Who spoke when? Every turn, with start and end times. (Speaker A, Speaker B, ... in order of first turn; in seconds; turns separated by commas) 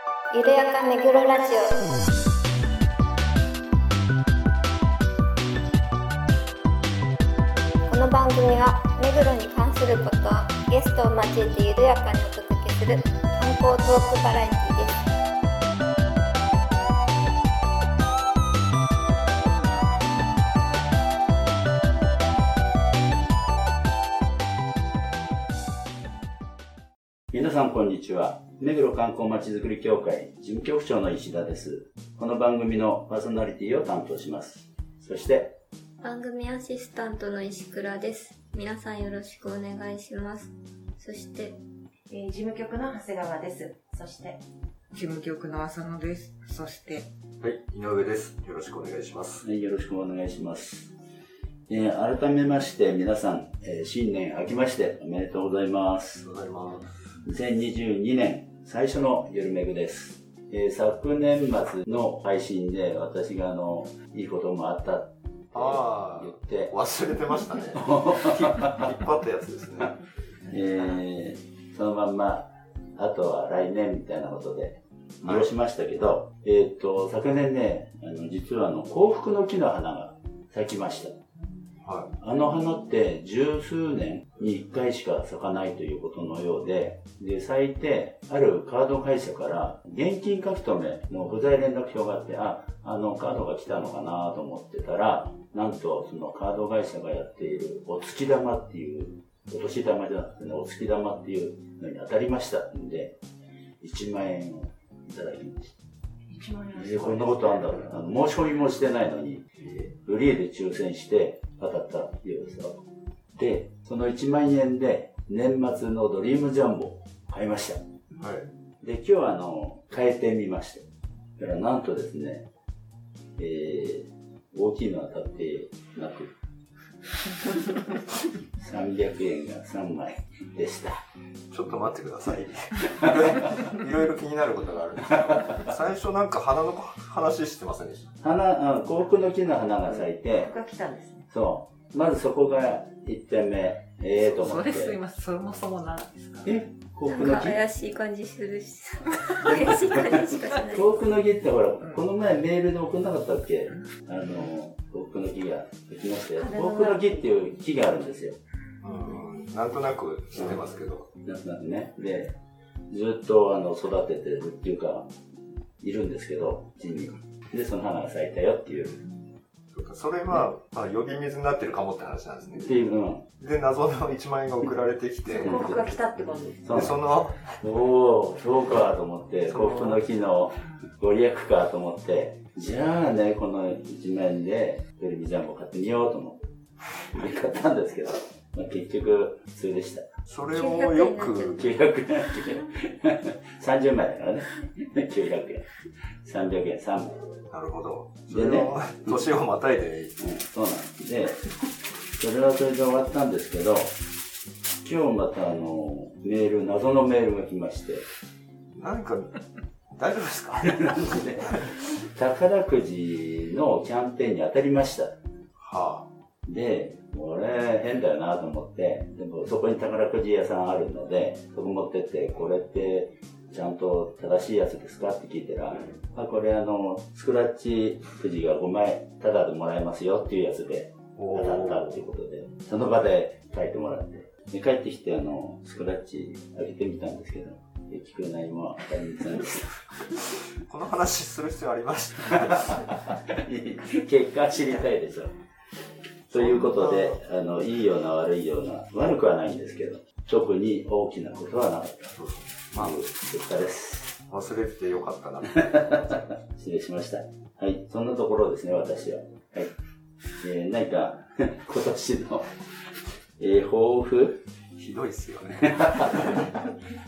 Speaker A: 0.3-1.9, Speaker A: 7.9-15.0, Speaker B: 27.3-35.6, Speaker A: 36.0-41.6, Speaker C: 42.1-44.4, Speaker D: 44.9-47.0, Speaker E: 47.4-49.4, Speaker B: 49.4-50.9, Speaker B: 51.7-56.2, Speaker E: 56.2-56.9, Speaker B: 57.2-66.7, Speaker E: 65.5-70.0, Speaker B: 67.8-68.9, Speaker B: 70.5-81.2, Speaker C: 70.5-71.0, Speaker E: 75.2-75.5, Speaker E: 81.8-82.1, Speaker B: 82.2-103.2, Speaker B: 103.8-105.8, Speaker C: 106.3-108.2, Speaker B: 106.8-109.5, Speaker E: 109.6-110.0, Speaker B: 110.0-112.8, Speaker B: 113.3-117.8, Speaker E: 118.2-118.5, Speaker B: 118.8-120.9, Speaker B: 121.4-122.5, Speaker B: 123.4-126.3, Speaker B: 128.6-131.0, Speaker E: 131.5-138.1, Speaker B: 138.2-140.5, Speaker C: 139.9-141.3, Speaker B: 141.3-145.0, Speaker D: 144.1-146.5, Speaker B: 146.4-147.6, Speaker A: 147.1-150.9, Speaker B: 149.5-158.4, Speaker A: 156.4-157.2, Speaker E: 158.8-161.1, Speaker B: 161.2-162.3, Speaker B: 162.9-165.1, Speaker B: 165.8-169.0, Speaker E: 169.7-172.7, Speaker B: 172.6-173.2, Speaker E: 173.4-175.6, Speaker C: 175.3-176.9, Speaker B: 175.4-176.0, Speaker B: 176.6-177.0, Speaker E: 176.7-177.6, Speaker B: 177.6-186.4, Speaker E: 179.5-180.0, Speaker B: 187.1-190.1, Speaker E: 190.3-191.6, Speaker A: 190.5-191.7, Speaker B: 191.6-195.7, Speaker B: 196.2-197.2, Speaker E: 197.5-200.2, Speaker B: 198.3-199.3, Speaker B: 200.2-201.5, Speaker B: 202.2-203.9, Speaker B: 204.8-208.1, Speaker E: 208.7-209.4, Speaker E: 210.0-211.1, Speaker B: 210.8-215.2, Speaker E: 215.6-216.1, Speaker B: 216.5-239.9, Speaker E: 231.2-232.0, Speaker E: 240.7-242.9, Speaker B: 242.9-245.3, Speaker B: 246.3-252.2, Speaker E: 246.3-247.2, Speaker E: 252.1-253.0, Speaker B: 252.8-254.2, Speaker E: 254.3-256.3, Speaker B: 256.4-259.7, Speaker B: 260.4-262.6, Speaker B: 263.4-264.4, Speaker E: 264.8-266.4, Speaker B: 265.8-266.5